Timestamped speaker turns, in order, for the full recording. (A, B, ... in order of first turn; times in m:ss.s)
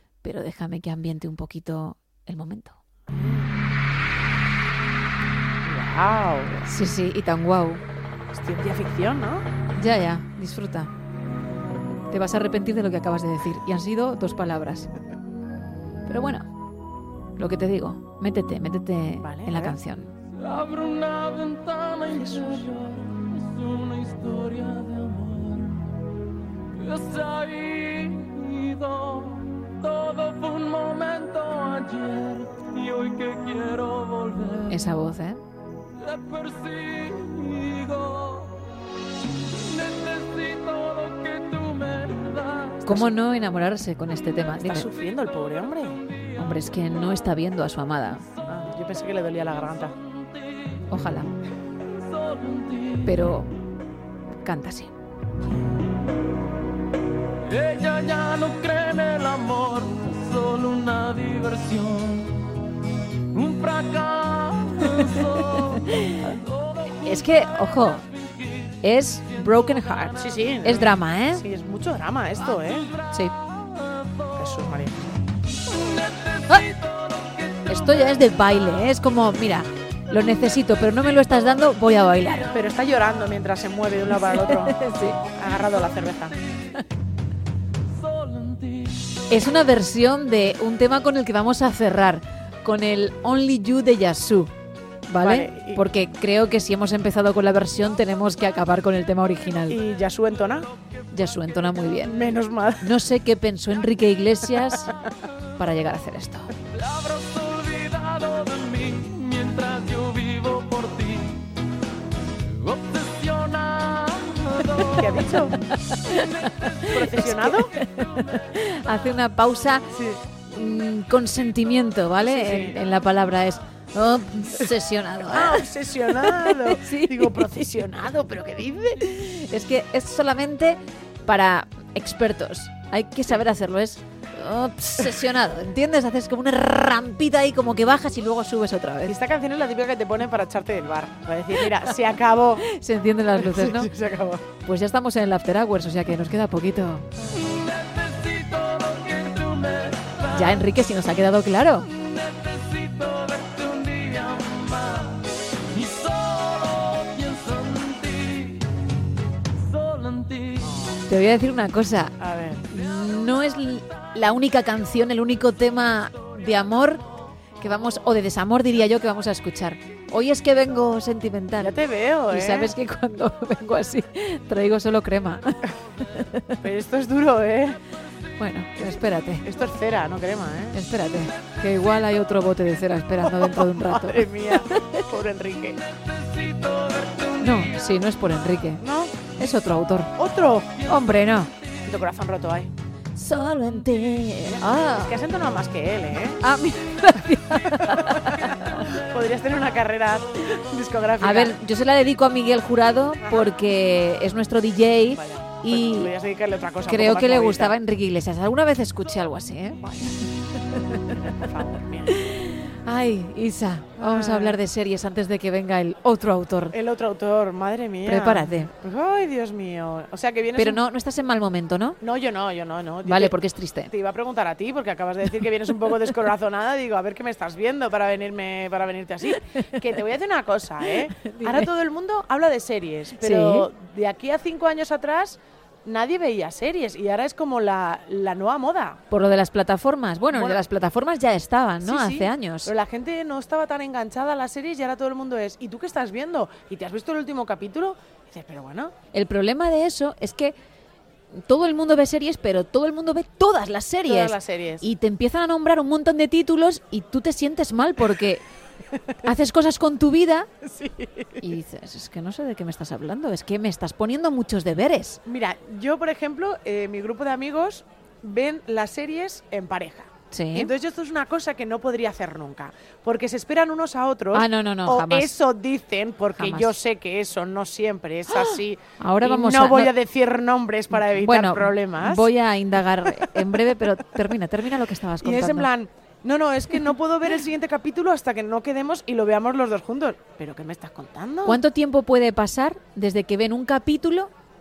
0:00.2-0:02.8 A
0:03.2-0:03.5 B
0:05.6-0:06.7 B
0:06.6-0:07.8 A
0:08.3-0:09.4 B
0:09.7-0:10.9 A
0:12.1-0:14.9 A
0:16.1-0:16.5 A
0:17.4-0:20.1 A
0:19.2-0:19.8 B
0:20.3-0:25.9 C
0:22.2-0:22.6 B
0:26.7-0:34.9 C
0:34.7-0:35.4 A
0:36.0-0:38.6 C
0:39.5-0:43.0 C
0:42.8-0:44.9 A
0:44.6-0:46.0 B
0:46.4-0:48.2 A
0:48.5-0:49.9 B
0:50.0-0:50.8 C
0:50.9-0:51.3 A
0:51.8-0:53.1 C
0:53.0-0:53.5 A
0:54.4-0:54.9 A
0:57.4-1:02.5 C
1:03.3-1:10.4 C
1:05.9-1:06.4 A
1:07.0-1:08.0 A
1:08.8-1:11.4 A
1:10.2-1:12.9 B
1:12.5-1:14.8 C
1:14.4-1:15.1 B
1:15.6-1:18.5 C
1:17.7-1:22.5 A
1:22.5-1:24.8 B
1:24.2-1:25.2 A
1:25.3-1:26.4 B
1:25.6-1:26.8 C
1:27.8-1:29.1 C
1:29.3-1:34.5 A
1:35.1-1:39.8 A
1:35.2-1:35.8 B
1:39.7-1:40.7 B
1:41.1-1:42.1 A
1:42.0-1:42.9 B
1:42.8-1:44.9 A
1:45.6-1:46.5 A
1:46.7-1:51.5 C
1:52.4-1:55.4 C
1:54.9-1:55.6 B
1:55.7-1:59.9 A
1:56.1-1:57.0 C
1:56.8-1:57.7 B
1:59.9-2:00.2 B
2:00.5-2:07.7 A
2:02.2-2:02.8 B
2:05.3-2:09.0 B
2:09.0-2:19.2 A
2:19.1-2:22.7 B
2:22.6-2:23.9 A
2:23.4-2:24.4 B
2:24.6-2:27.1 A
2:27.3-2:30.6 C
2:30.3-2:31.9 A
2:31.9-2:38.7 C
2:39.5-2:40.8 C
2:40.6-2:41.0 B
2:41.1-2:42.1 A
2:42.2-2:42.6 B
2:42.7-2:47.0 A
2:47.6-2:51.8 A
2:51.6-2:52.7 B
2:52.3-2:55.6 A
2:56.1-2:56.6 A
2:56.6-2:57.8 B
2:58.4-2:59.4 A
2:59.4-3:00.8 B
3:00.7-3:05.0 A
3:03.2-3:05.8 B
3:05.8-3:07.9 C
3:07.4-3:08.8 A
3:08.8-3:09.2 B
3:09.4-3:10.1 A
3:10.2-3:10.8 B
3:10.9-3:11.5 A
3:11.8-3:12.7 B
3:13.2-3:15.2 A
3:14.9-3:16.4 B
3:16.4-3:18.9 A
3:17.7-3:21.5 B
3:21.2-3:26.1 A
3:23.2-3:23.5 B
3:25.1-3:27.7 B
3:26.8-3:29.9 A
3:29.8-3:30.1 B
3:30.8-3:31.1 A
3:31.1-3:32.1 B
3:32.1-3:36.7 A
3:34.0-3:34.6 B
3:36.7-3:40.8 B
3:38.0-3:38.7 A
3:40.6-3:42.0 A
3:42.0-3:43.4 B
3:43.0-3:43.9 A
3:43.9-3:59.0 B
3:51.0-3:51.7 A
3:53.2-3:53.7 A
3:59.1-4:02.7 A
4:00.3-4:00.6 B
4:01.8-4:08.9 B
4:09.1-4:10.5 A
4:11.3-4:18.4 A
4:14.0-4:14.8 B
4:19.2-4:20.5 A
4:20.6-4:21.4 B
4:21.4-4:25.2 A
4:25.2-4:42.3 B
4:30.3-4:30.7 A
4:34.3-4:35.3 A
4:36.3-4:36.7 A
4:38.3-4:39.9 A
4:40.9-4:45.7 A
4:45.2-4:51.6 B
4:51.4-4:54.3 A